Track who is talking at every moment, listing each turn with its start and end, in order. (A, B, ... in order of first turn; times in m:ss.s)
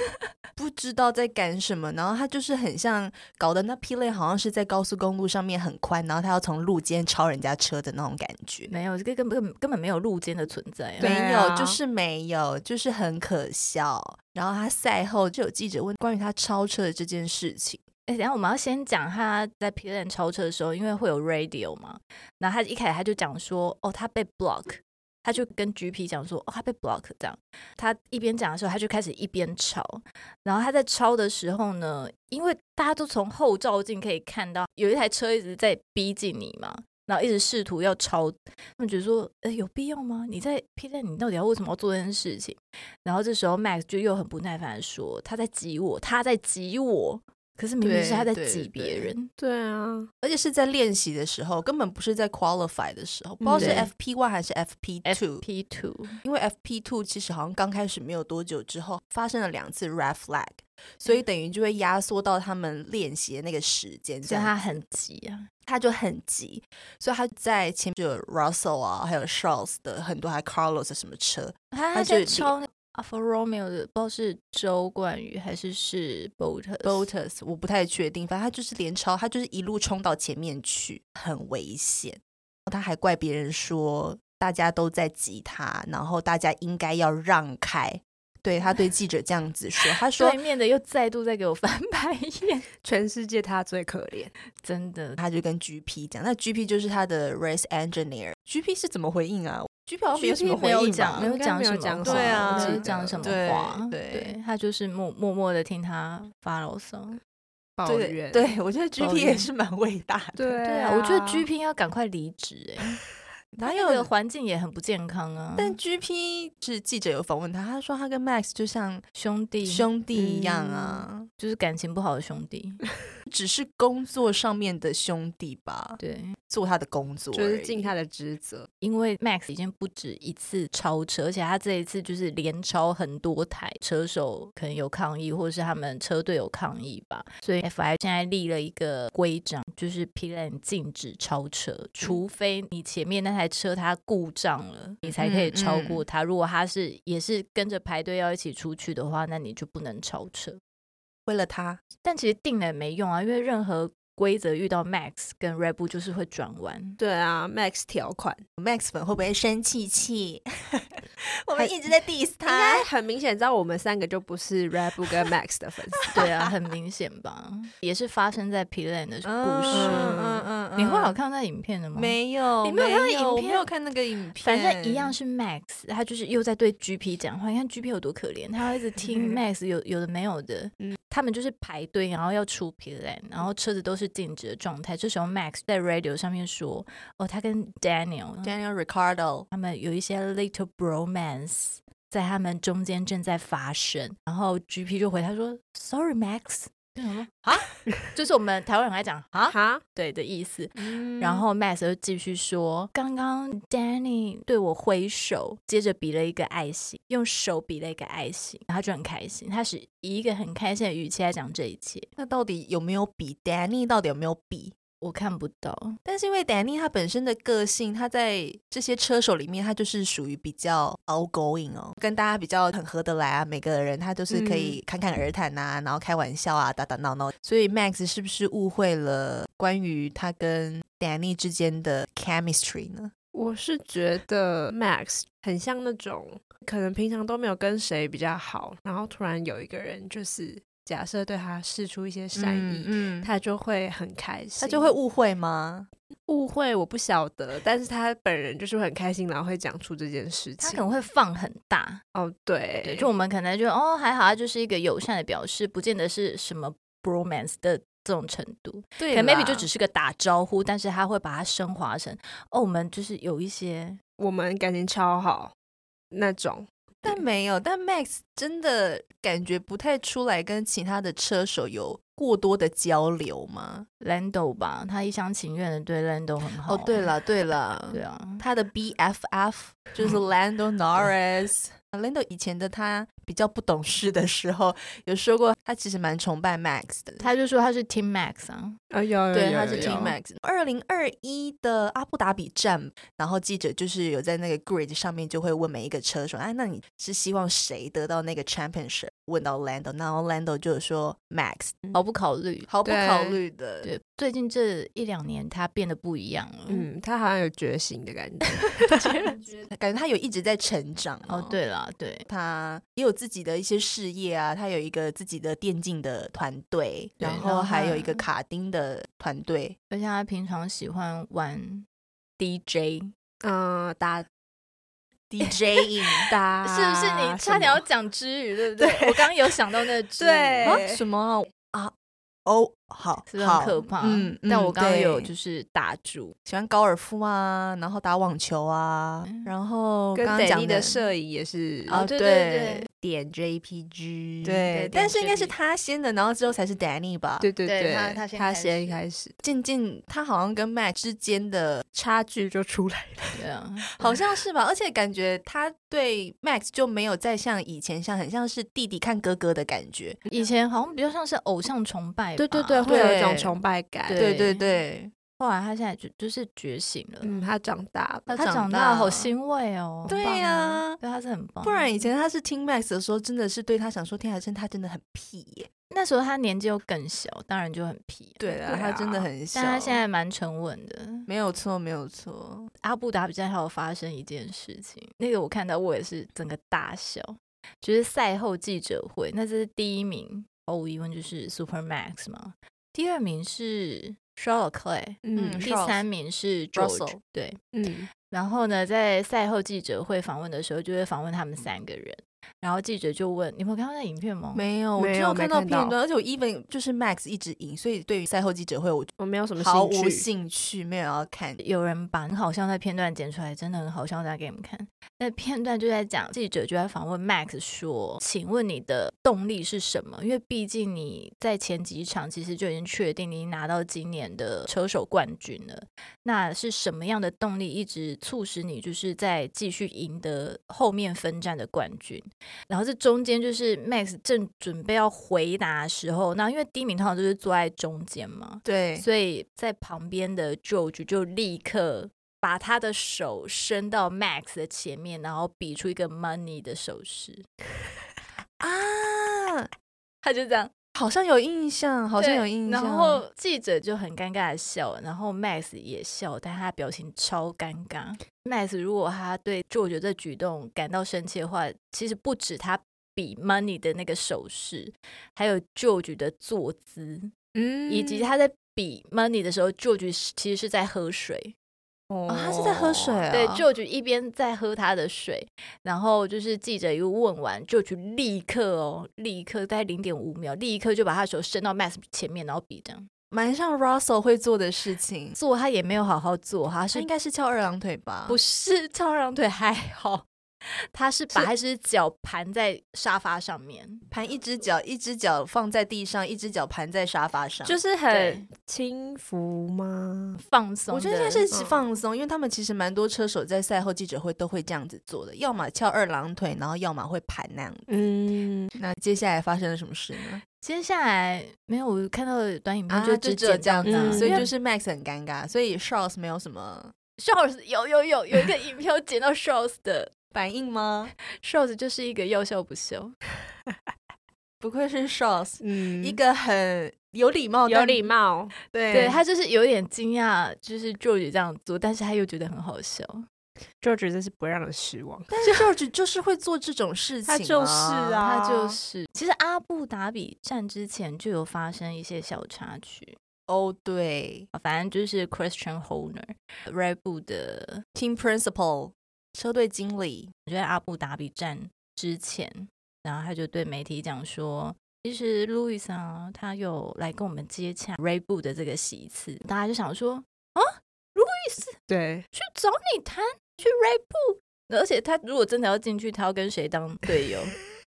0:00.6-0:08.7 A
0:08.7-0:11.1 B
0:11.0-0:11.8 C
0:11.0-0:17.8 A
0:18.1-0:49.3 B
0:47.8-0:49.1 A
0:49.4-0:50.1 C
0:50.2-0:55.4 A
0:53.4-0:53.9 C
0:53.5-0:53.9 B
0:55.0-0:56.2 B
0:56.2-1:04.5 A
1:04.3-1:05.5 B
1:05.7-1:12.6 A
1:11.7-1:17.1 B
1:16.8-1:30.4 A
1:30.1-1:32.7 B
1:32.8-1:34.3 C
1:34.6-1:35.2 B
1:35.2-1:41.4 A
1:40.2-1:43.4 C
1:40.6-1:47.2 B
1:42.0-1:44.4 A
1:47.8-1:48.6 C
1:47.9-1:50.6 A
1:49.0-1:49.5 B
1:50.4-1:51.5 C
1:50.6-1:53.0 B
1:53.5-1:54.1 A
1:53.6-1:55.8 B
1:55.6-1:59.0 A
1:59.2-1:59.9 B
1:59.6-2:01.3 A
2:00.1-2:01.1 C
2:01.4-2:02.8 B
2:03.3-2:06.0 A
2:06.0-2:06.4 B
2:06.5-2:07.9 A
2:07.3-2:08.7 C
2:08.8-2:30.6 B
2:25.0-2:26.0 A
2:31.3-2:31.8 A
2:32.0-2:37.0 B
2:37.0-2:38.4 C
2:38.6-2:42.9 A
2:42.5-2:46.1 C
2:46.1-2:50.2 B
2:49.2-2:51.2 A
2:49.7-2:50.5 C
2:50.8-2:53.7 B
2:52.0-2:55.2 A
2:54.4-3:08.6 B
2:59.1-2:59.4 C
3:08.4-3:09.5 A
3:09.5-3:32.1 B
3:19.5-3:19.8 C
3:32.2-3:34.8 A
3:35.0-3:36.0 B
3:36.0-3:53.1 A
3:44.3-3:44.8 C
3:53.3-4:05.0 C
4:02.4-4:03.3 A
4:04.6-4:05.9 A
4:06.3-4:10.9 C
4:10.6-4:12.0 B
4:12.2-4:13.1 C
4:12.8-4:24.0 B
4:19.0-4:19.7 A
4:24.2-4:25.5 C
4:26.1-4:27.2 C
4:27.0-4:33.9 A
4:34.0-4:37.1 B
4:36.7-4:47.2 A
4:37.9-4:38.4 B
4:47.2-4:48.8 B
4:48.9-4:50.0 C
4:49.3-4:50.2 B
4:49.4-5:01.8 A
5:01.9-5:02.7 B
5:02.7-5:03.9 A
5:02.8-5:03.4 C
5:03.8-5:06.9 B
5:06.7-5:09.3 C
5:08.9-5:09.4 B
5:09.7-5:11.6 A
5:11.3-5:12.3 B
5:12.3-5:19.8 A
5:17.2-5:18.2 B
5:19.9-5:21.9 B
5:22.4-5:23.1 B
5:23.4-5:24.3 C
5:25.3-5:26.3 A
5:26.2-5:27.8 C
5:26.6-5:30.8 B
5:28.8-5:29.3 C
5:30.2-5:31.0 C
5:30.6-5:31.9 A
5:32.4-5:35.3 A
5:33.3-5:36.4 B
5:36.5-5:41.0 A
5:40.2-5:42.0 C
5:41.9-5:42.9 B
5:41.9-5:42.9 A
5:42.9-5:44.8 C
5:44.4-5:47.5 A
5:44.7-5:45.5 B
5:47.4-5:49.4 C
5:47.6-5:49.0 B
5:49.4-5:51.8 A
5:51.9-5:53.4 C
5:53.4-5:54.2 B
5:54.0-6:00.2 A
6:00.3-6:03.3 B
6:02.4-6:04.3 C
6:02.8-6:03.6 A
6:04.1-6:04.8 B
6:04.2-6:05.1 A
6:05.4-6:07.4 B
6:07.2-6:08.5 C
6:08.3-6:10.3 B
6:08.3-6:09.4 A
6:10.1-6:11.0 A
6:10.2-6:10.8 C
6:11.0-6:11.9 B
6:11.6-6:15.7 A
6:15.9-6:21.3 B
6:18.4-6:20.0 A
6:21.3-6:22.7 A
6:22.8-6:37.6 B
6:35.2-6:35.7 C
6:35.4-6:36.0 A
6:36.7-6:37.2 A
6:37.7-6:38.1 C
6:38.3-6:44.6 B
6:44.6-6:51.6 A
6:45.0-6:46.0 C
6:49.2-6:50.3 C
6:51.6-7:27.5 B
7:18.6-7:19.1 A
7:28.6-7:29.7 A
7:30.2-7:30.7 B
7:31.0-7:33.2 A
7:32.2-7:47.3 B
7:47.6-7:48.3 C
7:47.9-7:51.5 B
7:52.1-7:52.5 C
7:52.3-7:53.6 A
7:52.3-8:03.1 B
8:03.3-8:05.4 A
8:05.4-8:07.1 B
8:06.9-8:08.4 A
8:08.3-8:10.2 B
8:10.9-8:14.0 B
8:14.1-8:17.8 A
8:17.6-8:20.4 C
8:18.1-8:18.5 B
8:20.4-8:21.5 B
8:20.9-8:27.9 A
8:21.5-8:21.8 C
8:27.9-8:28.8 C
8:28.8-8:30.4 A
8:30.6-8:34.5 B
8:32.9-8:36.9 A
8:33.8-8:34.5 C
8:37.2-8:40.1 B
8:40.3-8:41.1 A
8:41.4-8:43.2 B
8:44.6-8:48.1 A
8:45.6-8:46.2 C
8:47.7-8:48.5 C
8:48.7-8:49.2 A
8:48.9-8:53.3 B
8:53.8-8:55.3 C
8:55.3-8:58.2 A
8:55.4-8:55.7 B
8:57.3-8:58.8 C
8:58.2-9:03.2 B
9:03.5-9:04.5 A
9:04.5-9:07.8 B
9:08.0-9:10.3 A
9:10.5-9:21.8 B
9:21.9-9:22.3 C
9:22.3-9:27.6 B